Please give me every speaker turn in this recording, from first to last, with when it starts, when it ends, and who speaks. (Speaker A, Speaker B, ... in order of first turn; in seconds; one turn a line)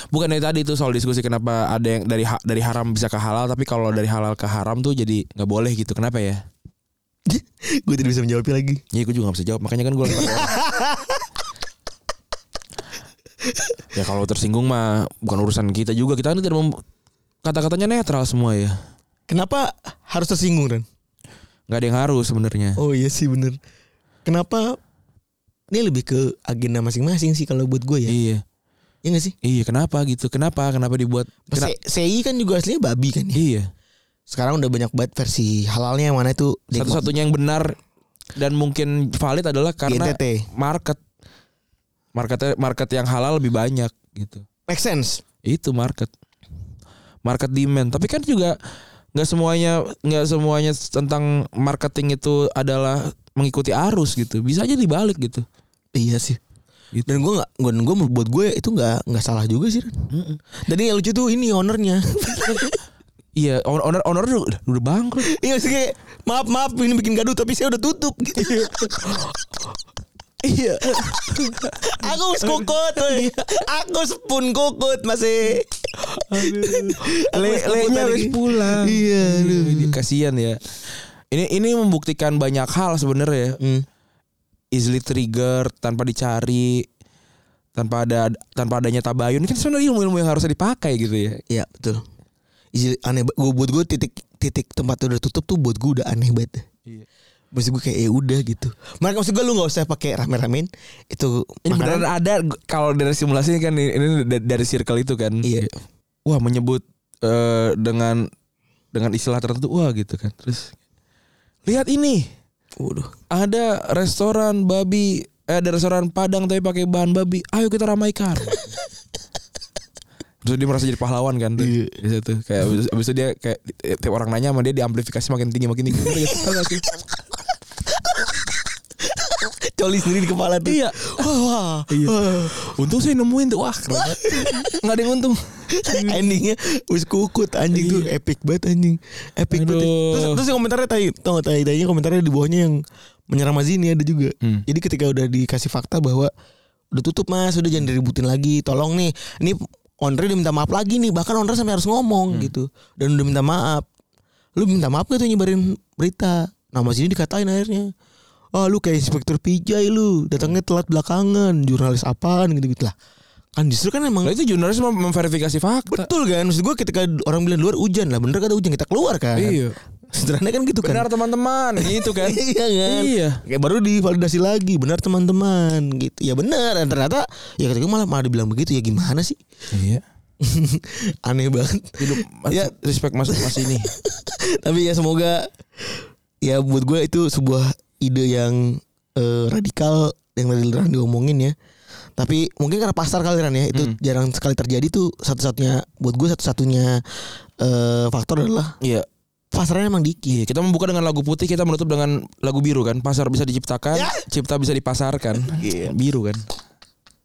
Speaker A: 0.1-6.4
Speaker B: 7.3-8.8
Speaker A: 8.9-10.6
Speaker B: 10.1-11.2
Speaker B: 13.4-13.8
Speaker A: 13.9-16.8
Speaker A: 17.4-18.8
Speaker B: 19.3-20.8
Speaker A: 21.7-22.8
Speaker B: 22.8-23.6
Speaker B: 24.2-24.8
Speaker B: 25.7-28.1
Speaker A: 28.1-28.4
Speaker B: 29.0-29.3
Speaker A: 29.4-31.7
Speaker B: 31.5-33.4
Speaker A: 33.3-33.7
Speaker B: 34.3-37.0
Speaker A: 36.7-37.8
Speaker A: 38.4-41.0
Speaker B: 39.9-40.5
Speaker A: 42.1-44.4
Speaker B: 44.7-45.2
Speaker A: 45.4-46.1
Speaker A: 47.2-48.6
Speaker A: 49.1-55.5
Speaker B: 55.9-56.4
Speaker A: 56.9-57.2
Speaker B: 57.0-60.0
Speaker A: 60.1-60.4
Speaker B: 60.6-62.8
Speaker A: 63.4-65.3
Speaker B: 65.2-69.3
Speaker A: 68.4-69.2
Speaker A: 70.4-73.6
Speaker B: 71.8-80.0
Speaker A: 76.3-80.6
Speaker A: 81.3-83.6
Speaker A: 84.7-86.8
Speaker A: 87.7-91.4
Speaker B: 91.5-92.0
Speaker B: 92.7-96.7
Speaker B: 97.5-102.0
Speaker A: 101.7-105.7
Speaker B: 105.4-105.7
Speaker A: 106.2-108.2
Speaker A: 108.9-110.7
Speaker A: 111.6-112.3
Speaker B: 112.8-113.1
Speaker A: 113.3-118.6
Speaker A: 120.4-126.8
Speaker B: 121.6-122.0
Speaker B: 126.0-126.4
Speaker B: 129.1-132.6
Speaker A: 130.6-131.3
Speaker A: 131.9-136.2
Speaker B: 133.9-134.7
Speaker B: 135.7-142.8
Speaker A: 137.7-138.1
Speaker A: 139.5-140.4
Speaker B: 143.3-146.3
Speaker B: 146.9-153.9
Speaker B: 154.6-157.9
Speaker B: 158.5-162.9
Speaker B: 163.6-164.3
Speaker A: 164.2-166.1
Speaker B: 165.9-171.0
Speaker A: 169.3-169.7
Speaker A: 170.8-173.4
Speaker B: 171.8-179.4
Speaker A: 179.7-180.0
Speaker B: 180.4-182.7
Speaker A: 182.0-183.9
Speaker B: 183.3-191.5
Speaker B: 192.2-198.8
Speaker A: 198.8-199.1
Speaker B: 199.5-200.4
Speaker A: 200.3-206.4
Speaker B: 203.9-204.2
Speaker B: 205.4-205.9